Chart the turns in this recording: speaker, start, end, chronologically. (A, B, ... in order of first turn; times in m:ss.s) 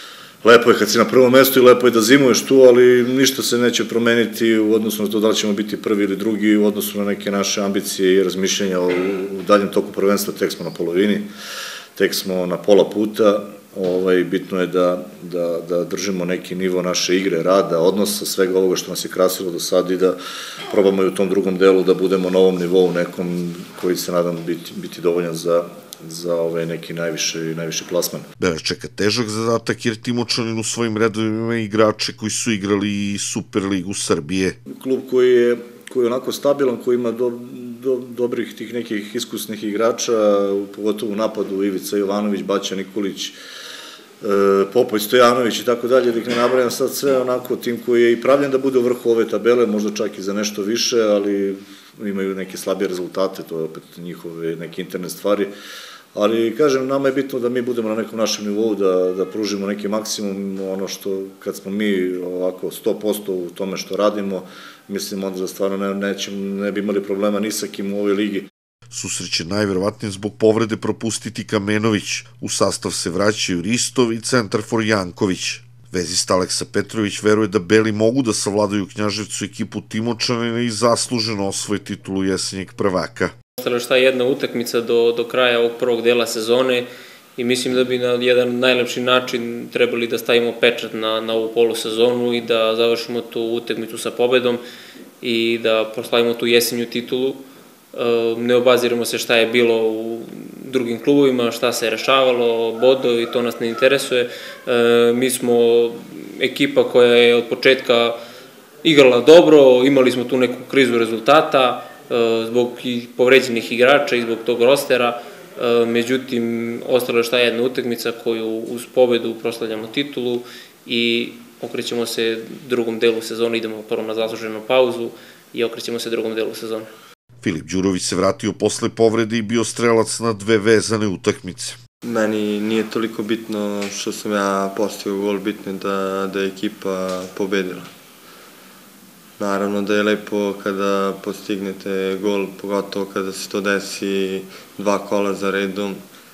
0:00.4-0:11.3 A
0:12.0-0:28.3 A
0:28.4-0:34.6 B
0:34.7-0:43.4 A
0:44.2-0:55.5 A
0:56.1-1:08.5 A
1:08.9-1:23.3 B
1:23.6-1:34.6 C
1:35.2-1:48.2 C
1:48.8-2:06.9 C
2:07.4-2:11.8 B
2:12.0-2:17.9 D
2:19.4-2:26.0 D